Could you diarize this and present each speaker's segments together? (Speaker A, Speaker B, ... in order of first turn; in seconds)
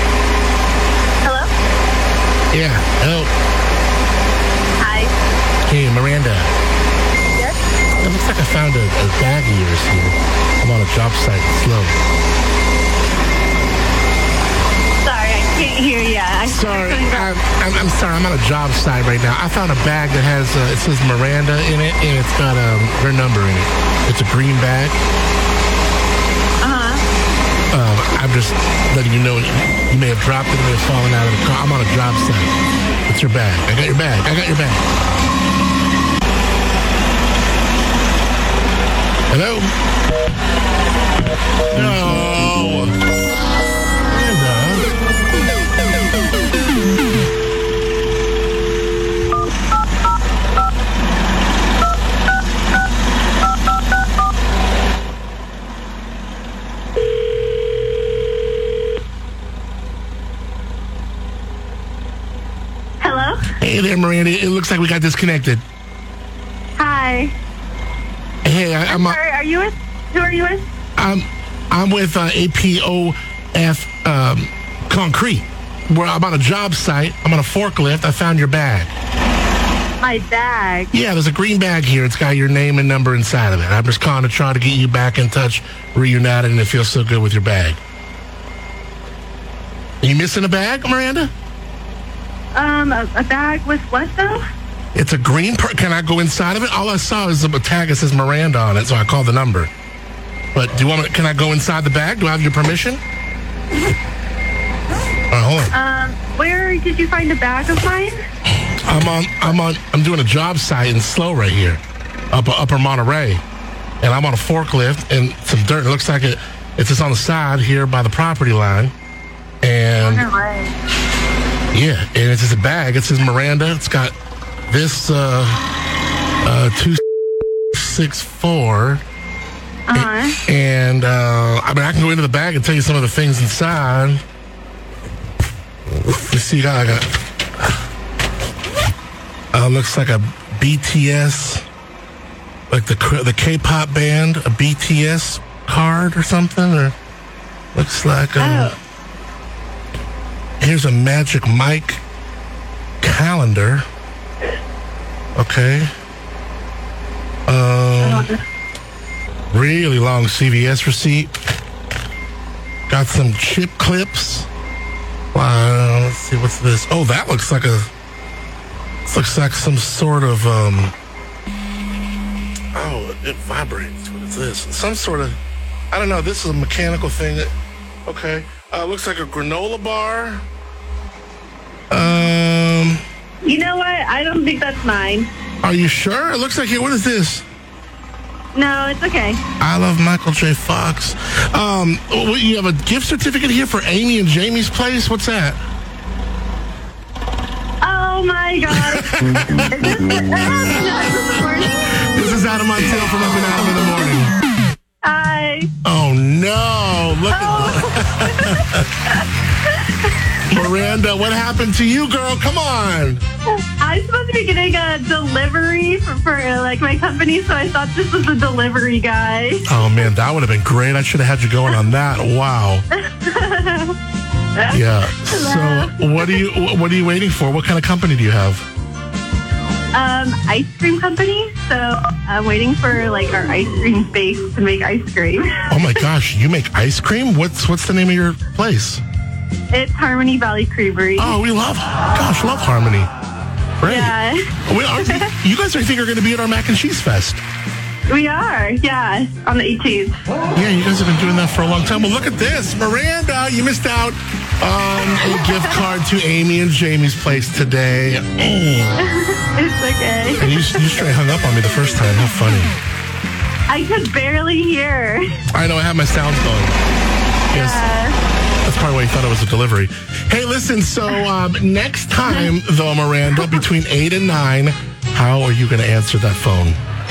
Speaker A: 1.2-1.5, 4.8-5.1, 15.0-17.3, 26.6-27.0, 63.0-63.4, 66.8-67.3, 68.8-70.7, 80.0-80.9, 92.5-94.4, 105.7-108.2, 120.0-120.7, 129.9-130.4, 148.4-148.8, 158.0-158.4, 182.0-182.2, 183.4-185.3, 188.6-189.4, 197.8-201.9, 205.0-205.7, 207.3-210.6, 213.8-219.7, 223.2-224.0, 224.6-226.4, 229.9-236.0, 239.7-241.4, 243.8-244.4, 248.1-250.2, 255.3-255.7, 259.0-260.8, 263.7-265.4, 267.5-268.2
Speaker B: 2.5-3.3, 5.7-6.5, 8.0-12.0, 16.5-25.0, 27.7-32.5, 33.1-34.9, 39.3-39.7, 41.7-43.0, 44.0-44.9, 63.6-65.6, 68.4-69.2, 71.0-78.9, 80.9-87.8, 90.0-91.3, 94.9-99.7, 100.5-103.0, 105.3-105.7, 108.6-111.8, 112.3-113.4, 114.0-118.9, 119.6-120.3, 121.7-124.1, 124.7-125.6, 126.4-127.0, 127.7-129.0, 129.9-134.2, 136.1-137.1, 139.5-141.6, 142.7-146.9, 147.8-148.7, 150.6-152.0, 153.0-153.8, 155.4-155.9, 157.5-158.3, 159.5-161.3, 162.9-164.5, 165.3-167.9, 169.1-170.9, 172.7-175.4, 175.9-177.5, 178.1-180.4, 181.9-183.0, 185.6-187.4, 189.6-195.6, 198.7-200.7, 201.6-204.3, 205.8-209.1, 210.5-213.2, 219.7-222.9, 224.7-228.7, 235.7-239.0, 241.2-243.1, 243.8-244.1, 244.7-247.4, 250.6-259.0, 260.4-262.8, 265.5-266.8, 267.5-267.9, 268.6-276.8